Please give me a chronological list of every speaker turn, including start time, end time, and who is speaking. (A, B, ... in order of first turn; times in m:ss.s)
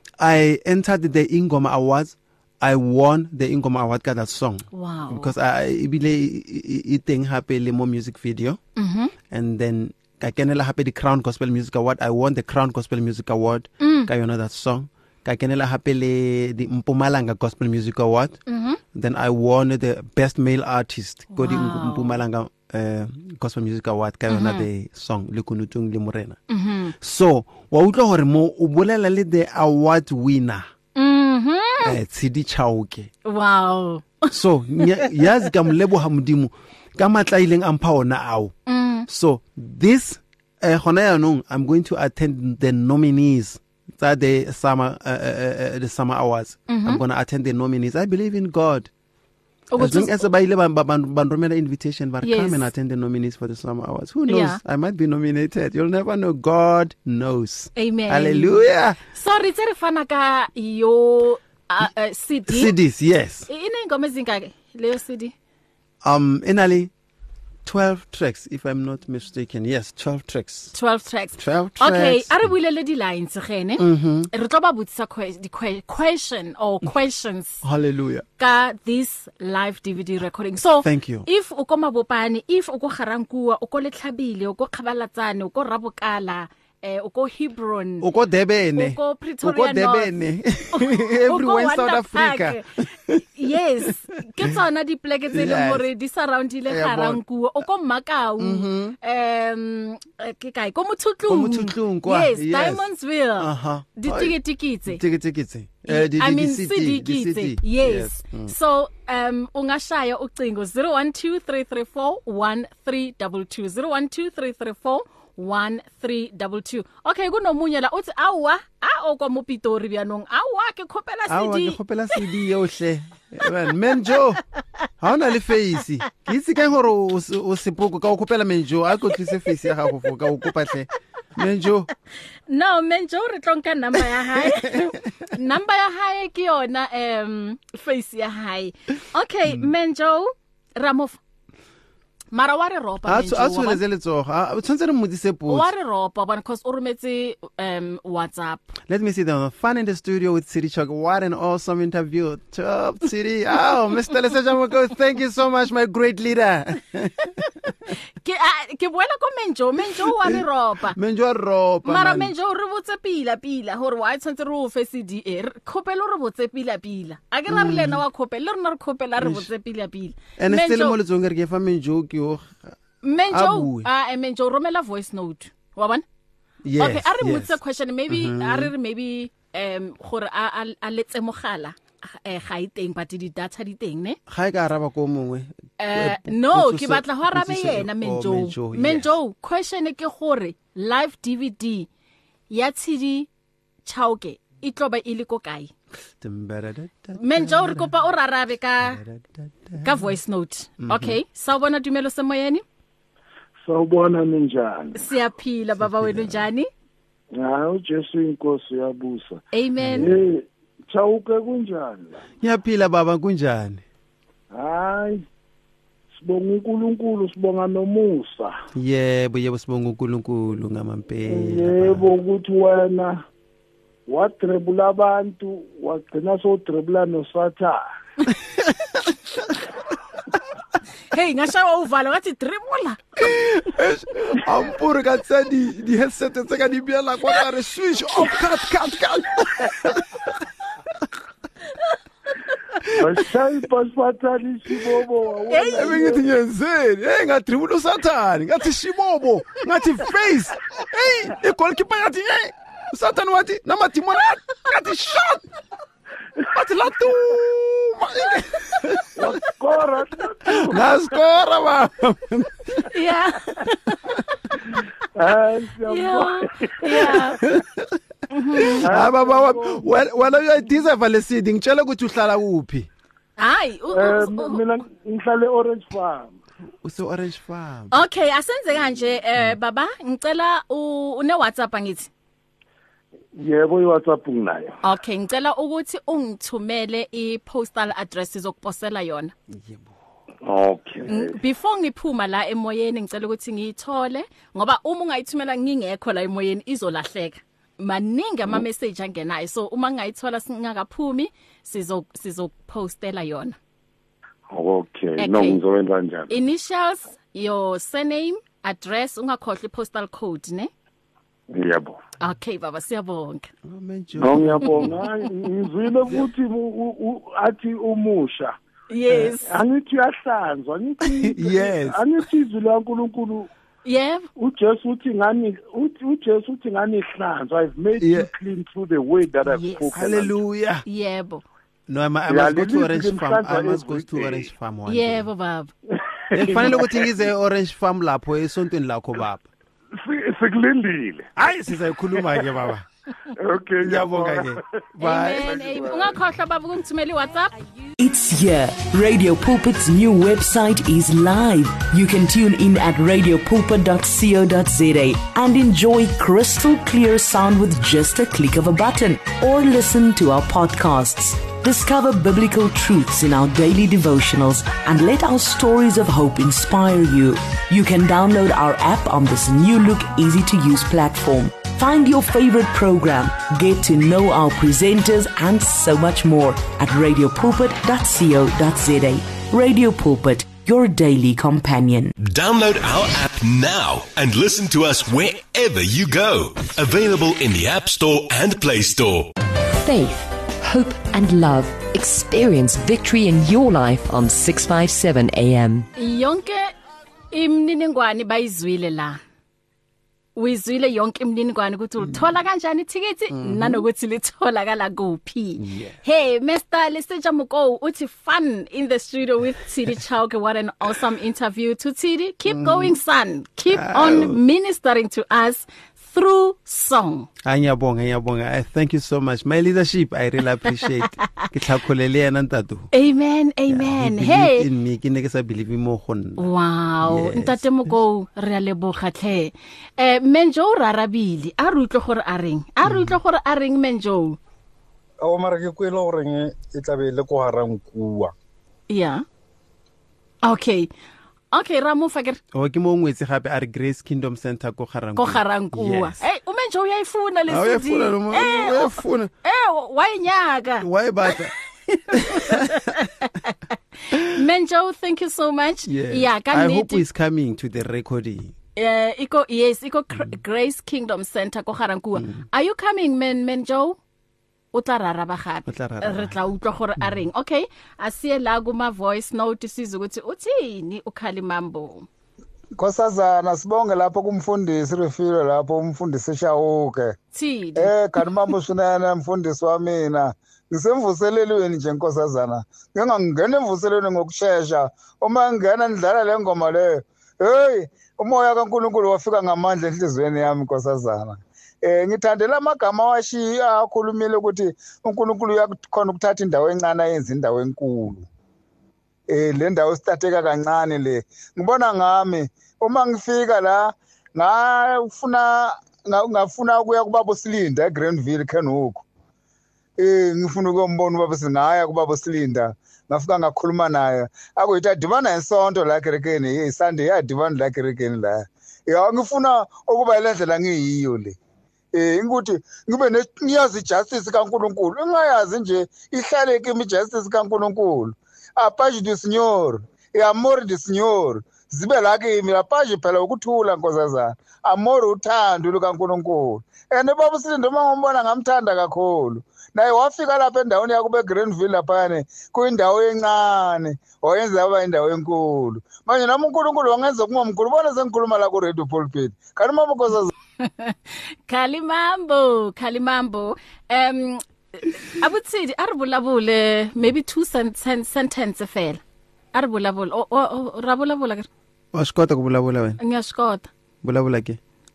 0:00.2-0:08.6 A
0:04.7-0:05.3 B
0:08.8-0:09.1 B
0:09.3-0:18.4 A
0:13.8-0:14.1 B
0:18.5-0:18.8 B
0:18.9-0:26.4 A
0:21.3-0:22.2 B
0:24.3-0:24.7 B
0:26.5-0:26.9 B
0:27.0-0:30.7 A
0:31.0-0:32.0 B
0:31.8-0:33.1 A
0:33.2-0:35.4 B
0:34.3-0:38.5 A
0:38.7-0:39.1 B
0:39.1-0:48.9 A
0:46.7-0:47.0 B
0:49.7-0:50.3 B
0:49.8-0:59.0 A
0:52.2-0:52.7 B
0:54.3-0:54.6 B
0:57.8-1:02.8 B
1:02.5-1:03.5 A
1:03.5-1:05.3 B
1:06.0-1:06.9 A
1:07.6-1:10.7 A
1:10.7-1:17.6 B
1:11.4-1:12.5 A
1:13.8-1:14.3 A
1:17.6-1:18.2 A
1:18.4-1:28.1 B
1:20.8-1:21.3 A
1:28.0-1:33.3 A
1:28.8-1:30.2 B
1:30.7-1:32.7 B
1:33.3-1:45.0 B
1:35.3-1:35.9 A
1:36.7-1:37.2 A
1:38.4-1:39.0 A
1:41.3-1:48.5 A
1:45.9-2:01.8 B
2:01.3-2:04.4 A
2:05.0-2:11.9 A
2:12.5-2:21.2 B
2:14.4-2:15.0 A
2:22.3-2:23.8 B
2:23.0-2:25.7 A
2:25.5-2:28.7 B
2:28.9-2:37.7 A
2:38.2-2:41.0 B
2:40.1-2:40.4 A
2:40.9-2:42.3 A
2:41.8-2:51.0 B
2:47.5-2:48.0 A
2:49.2-2:49.5 A
2:50.4-2:52.8 A
2:53.0-2:56.0 B
2:53.3-2:53.9 A
2:56.6-2:57.6 A
2:56.8-3:04.2 B
2:58.1-2:58.7 A
3:04.3-3:09.1 A
3:05.8-3:11.9 B
3:12.5-3:13.3 B
3:13.8-3:15.7 B
3:16.2-3:17.9 A
3:17.2-3:19.0 B
3:18.8-3:20.1 A
3:19.8-3:22.6 B
3:20.8-3:21.2 A
3:23.6-3:25.0 C
3:25.0-3:26.7 B
3:25.8-3:26.5 A
3:27.4-3:29.4 C
3:29.5-3:30.1 B
3:29.8-3:30.2 A
3:29.9-3:32.2 C
3:32.4-3:33.8 A
3:34.5-3:35.2 C
3:36.2-3:38.6 C
3:38.8-3:42.1 A
3:41.3-3:43.2 C
3:44.1-3:47.8 C
3:51.1-3:53.0 B
3:53.2-4:00.3 A
4:02.8-4:03.1 A
4:02.9-4:06.2 C
4:05.5-4:06.1 B
4:05.7-4:15.5 A
4:16.5-4:19.4 A
4:19.2-4:20.8 C
4:20.4-4:22.9 A
4:22.9-4:24.2 B
4:25.2-4:27.4 C
4:25.9-4:27.4 B
4:27.1-4:28.0 A
4:28.3-4:28.9 B
4:28.6-4:32.9 A
4:28.8-4:30.0 C
4:33.4-4:34.6 B
4:33.9-4:36.3 C
4:36.8-4:38.0 A
4:37.9-4:42.1 B
4:43.4-4:44.8 C
4:44.8-4:49.3 B
4:49.5-4:49.9 A
4:50.4-4:51.4 C
4:51.1-5:03.6 B
5:04.5-5:06.4 C
5:05.2-5:05.6 B
5:06.3-5:10.7 B
5:11.5-5:12.0 C
5:12.2-5:13.5 B
5:13.6-5:15.0 A
5:14.2-5:18.6 C
5:18.9-5:19.5 B
5:19.4-5:23.5 C
5:21.0-5:22.0 A
5:23.8-5:24.3 B
5:24.4-5:30.4 C
5:28.0-5:28.3 A
5:29.5-5:30.0 B
5:29.9-5:30.8 A
5:30.9-5:31.4 B
5:31.9-5:35.3 A
5:32.3-5:34.5 C
5:34.9-5:35.7 B
5:36.3-5:37.2 C
5:36.3-5:39.5 A
5:40.0-5:41.3 C
5:41.4-5:42.9 A
5:43.4-5:44.6 C
5:43.8-5:45.8 A
5:45.0-5:47.6 B
5:45.4-5:46.2 C
5:48.0-6:22.2 D
6:22.2-6:29.3 E
6:29.7-6:35.9 F
6:36.0-6:36.7 B
6:37.3-6:39.2 B
6:40.4-6:57.3 B
6:43.3-6:43.8 A
6:45.6-6:46.0 A
6:52.5-6:52.9 A
6:53.7-6:54.4 A
6:57.4-7:02.9 A
7:02.9-7:04.7 B
7:03.7-7:06.5 A
7:06.4-7:14.4 B
7:07.0-7:08.0 A
7:12.8-7:13.2 A
7:18.9-7:19.2 B
7:20.4-7:20.9 B
7:21.5-7:22.4 B
7:22.5-7:26.2 A
7:25.2-7:30.9 B
7:27.5-7:29.3 A
7:30.8-7:32.9 A
7:32.1-7:33.6 B
7:34.2-7:37.0 B
7:35.9-7:38.6 A
7:38.8-7:44.0 B
7:42.2-7:42.4 A
7:44.7-7:52.1 B
7:45.7-7:46.4 A
7:52.8-7:57.2 G
7:57.3-7:57.9 B
7:57.8-8:18.3 G
8:19.3-8:29.0 G
8:30.0-8:41.4 G
8:41.9-9:10.3 G
9:10.6-9:19.0 B
9:19.5-9:21.5 B
9:21.9-9:23.0 A
9:23.0-9:23.7 B
9:24.0-9:24.6 A